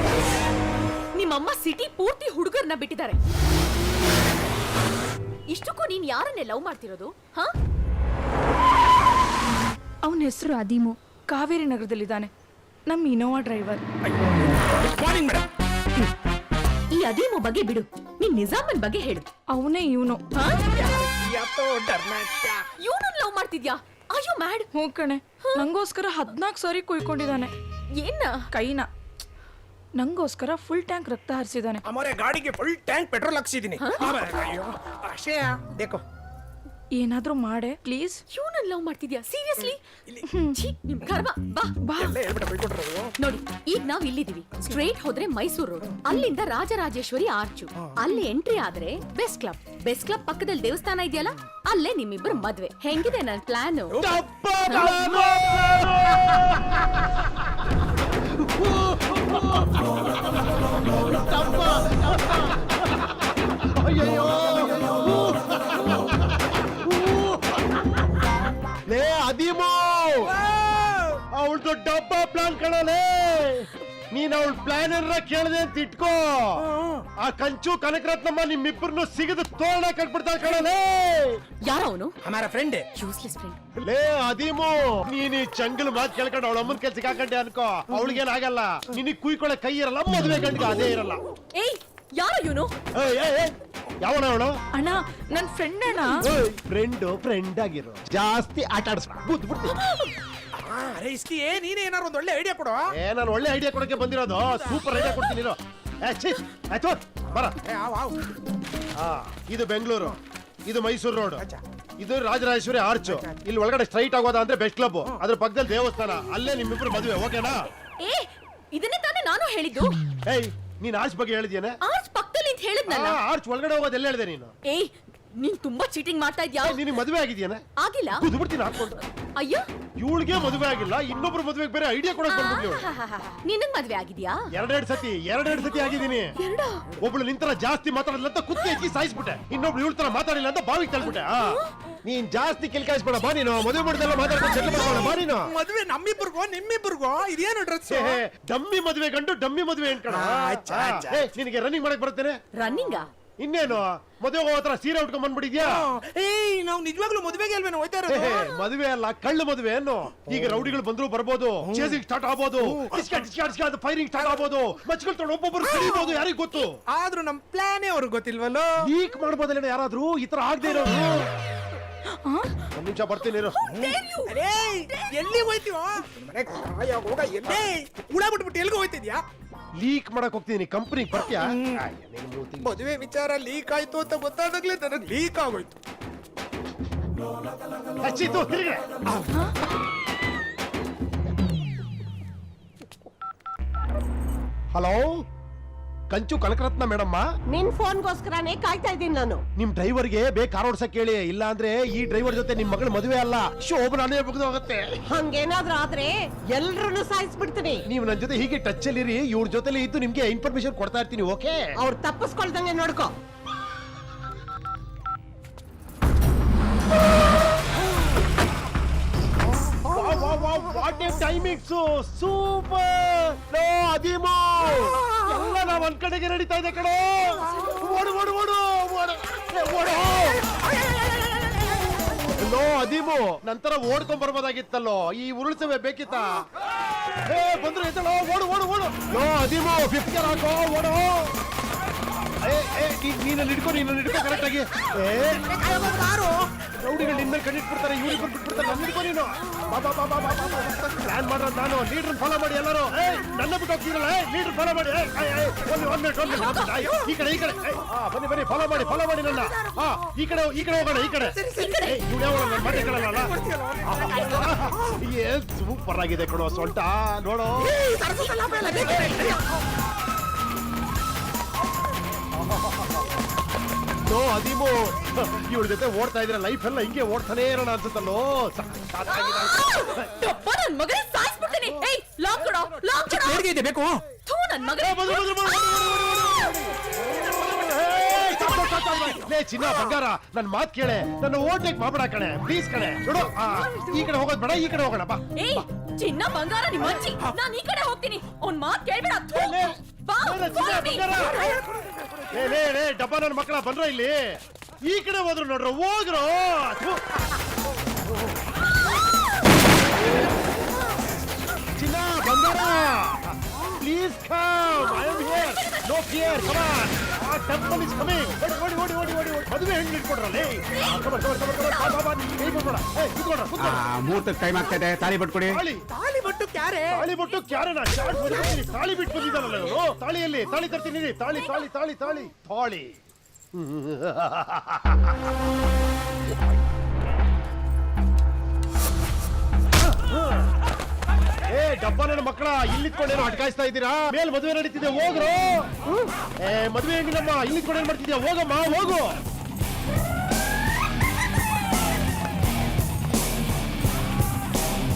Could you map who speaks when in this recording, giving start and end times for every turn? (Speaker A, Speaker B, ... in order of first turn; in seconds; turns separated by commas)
Speaker A: 1.1-3.2, Speaker A: 5.5-7.5, Speaker B: 10.1-12.3, Speaker B: 12.9-13.8, Speaker C: 14.1-15.4, Speaker A: 16.9-19.3, Speaker B: 19.5-20.2, Speaker A: 20.3-20.6, Speaker C: 20.7-22.7, Speaker A: 22.8-24.7, Speaker B: 24.7-27.5, Speaker A: 27.9-28.5, Speaker B: 28.5-28.9, Speaker B: 30.0-31.8, Speaker C: 31.9-36.0, Speaker A: 33.8-34.1, Speaker B: 37.0-38.2, Speaker A: 38.3-39.8, Speaker B: 40.3-40.6, Speaker A: 40.5-41.8, Speaker B: 41.8-42.2, Speaker C: 42.0-43.1, Speaker A: 43.2-54.0, Speaker C: 53.9-55.6, Speaker D: 54.3-57.2, Speaker A: 54.7-55.0, Speaker D: 58.2-59.9, Speaker D: 61.0-67.8, Speaker D: 68.9-70.3, Speaker C: 70.2-71.2, Speaker D: 71.3-76.6, Speaker C: 76.6-77.0, Speaker D: 77.2-81.4, Speaker A: 81.6-82.1, Speaker C: 82.2-82.8, Speaker A: 83.0-83.6, Speaker D: 83.8-91.2, Speaker A: 91.5-92.7, Speaker D: 92.9-94.5, Speaker B: 94.7-96.3, Speaker D: 96.2-99.8, Speaker C: 100.6-102.8, Speaker D: 102.9-107.6, Speaker C: 104.4-104.9, Speaker C: 107.6-108.3, Speaker D: 109.0-111.4, Speaker D: 112.0-117.6, Speaker C: 113.1-113.4, Speaker A: 118.0-120.0, Speaker D: 120.2-121.8, Speaker A: 121.8-123.2, Speaker D: 122.9-124.5, Speaker A: 124.7-126.8, Speaker D: 126.6-127.6, Speaker A: 127.8-128.3, Speaker D: 128.2-129.0, Speaker A: 129.4-129.7, Speaker D: 130.0-132.8, Speaker A: 132.3-134.4, Speaker D: 134.5-136.3, Speaker A: 136.4-136.8, Speaker D: 137.0-145.5, Speaker C: 144.7-148.2, Speaker D: 147.9-152.4, Speaker C: 150.1-151.3, Speaker A: 152.6-153.1, Speaker D: 153.4-155.8, Speaker C: 155.6-158.6, Speaker D: 158.1-166.8, Speaker C: 161.6-162.0, Speaker C: 162.6-163.1, Speaker C: 165.6-166.2, Speaker C: 166.9-168.7, Speaker D: 168.8-171.3, Speaker B: 172.2-172.5, Speaker D: 172.7-173.6, Speaker C: 173.7-179.2, Speaker A: 173.7-174.4, Speaker D: 179.8-182.7, Speaker C: 181.3-181.8, Speaker C: 182.6-185.7, Speaker D: 188.0-188.8, Speaker C: 189.1-189.4, Speaker D: 194.7-195.1, Speaker D: 196.1-197.2, Speaker E: 197.5-199.4, Speaker D: 199.6-205.0, Speaker E: 205.1-207.8, Speaker D: 207.8-211.7, Speaker E: 211.8-213.1, Speaker D: 219.8-230.5, Speaker D: 232.4-236.4, Speaker D: 237.2-241.3, Speaker D: 242.4-245.6, Speaker C: 245.6-246.5, Speaker D: 246.8-267.7, Speaker A: 256.3-256.8, Speaker C: 256.4-256.7, Speaker C: 261.3-261.9, Speaker C: 262.6-264.8, Speaker C: 267.6-269.4, Speaker D: 272.4-273.0, Speaker D: 274.1-280.1, Speaker A: 279.1-283.4, Speaker D: 282.5-282.8, Speaker C: 283.0-284.0, Speaker A: 284.2-285.8, Speaker D: 284.8-295.3, Speaker C: 288.2-289.2, Speaker A: 295.4-301.6, Speaker D: 299.3-301.4, Speaker C: 301.4-301.8, Speaker D: 302.3-307.0, Speaker D: 311.8-323.8, Speaker A: 320.7-322.0, Speaker F: 323.6-325.6, Speaker D: 325.4-325.8, Speaker C: 325.9-327.1, Speaker D: 326.9-333.0, Speaker D: 333.5-335.1, Speaker D: 340.0-340.5, Speaker D: 341.5-345.7, Speaker D: 346.4-349.2